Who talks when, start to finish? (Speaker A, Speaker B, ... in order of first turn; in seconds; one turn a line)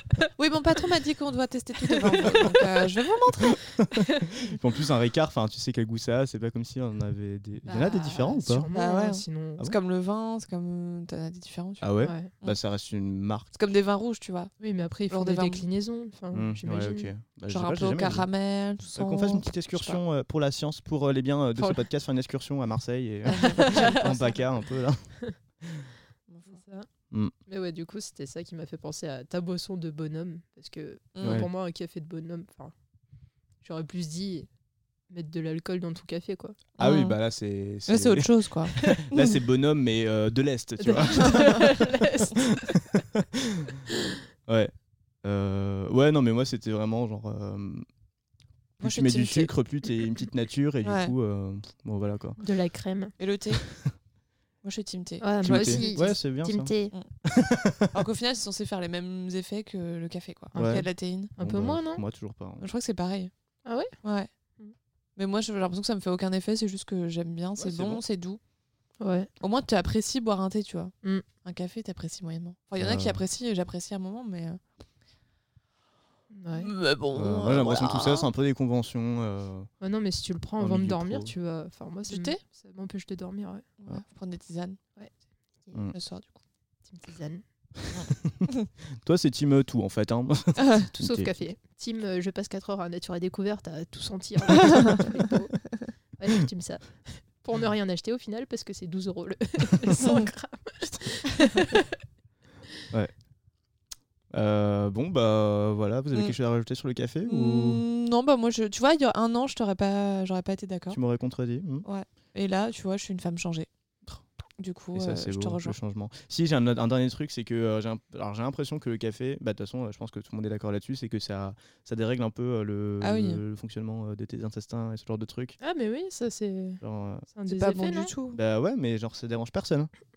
Speaker A: 0.4-3.7
Speaker B: 1.9-2.7
Speaker C: 3.8-8.7
Speaker B: 7.6-9.6
Speaker A: 8.7-11.9
Speaker C: 11.8-13.5
Speaker B: 12.0-12.3
Speaker A: 13.5-14.5
Speaker B: 14.6-17.1
Speaker A: 15.1-15.6
Speaker C: 16.3-18.3
Speaker A: 17.5-20.0
Speaker C: 18.9-25.1
Speaker B: 21.6-21.8
Speaker A: 23.3-24.3
Speaker B: 23.3-24.4
Speaker C: 25.6-25.9
Speaker A: 26.3-26.6
Speaker B: 26.5-26.9
Speaker B: 27.5-32.7
Speaker A: 31.1-31.5
Speaker C: 31.2-31.5
Speaker B: 33.6-34.5
Speaker B: 35.1-36.6
Speaker A: 36.8-37.2
Speaker C: 36.8-41.8
Speaker A: 37.9-39.4
Speaker B: 40.8-43.0
Speaker C: 42.4-43.7
Speaker C: 44.5-47.9
Speaker C: 48.8-52.4
Speaker A: 48.8-49.5
Speaker A: 50.8-51.1
Speaker B: 52.4-53.1
Speaker A: 53.2-53.7
Speaker C: 53.6-54.0
Speaker A: 54.6-56.2
Speaker B: 55.2-56.9
Speaker C: 55.4-56.7
Speaker C: 57.2-58.0
Speaker A: 57.9-61.3
Speaker B: 60.5-60.8
Speaker C: 60.5-62.7
Speaker B: 61.4-62.0
Speaker A: 62.6-63.3
Speaker B: 63.6-63.9
Speaker A: 64.0-64.3
Speaker A: 65.2-68.4
Speaker C: 67.6-68.0
Speaker B: 69.0-69.3
Speaker A: 69.4-74.6
Speaker C: 72.8-73.2
Speaker B: 76.3-76.7
Speaker A: 76.5-78.3
Speaker C: 77.1-79.7
Speaker B: 79.8-83.7
Speaker C: 80.6-81.3
Speaker A: 82.1-82.4
Speaker A: 83.8-85.1
Speaker A: 85.9-86.4
Speaker B: 86.9-87.4
Speaker A: 88.0-88.7
Speaker C: 89.0-91.4
Speaker B: 91.0-101.9
Speaker A: 100.0-100.3
Speaker C: 104.3-107.8
Speaker A: 107.3-111.0
Speaker C: 110.9-111.8
Speaker A: 111.8-113.7
Speaker A: 114.6-115.8
Speaker C: 114.9-125.6
Speaker A: 123.0-123.4
Speaker B: 125.6-128.1
Speaker C: 126.8-127.3
Speaker A: 127.5-128.4
Speaker C: 128.3-129.9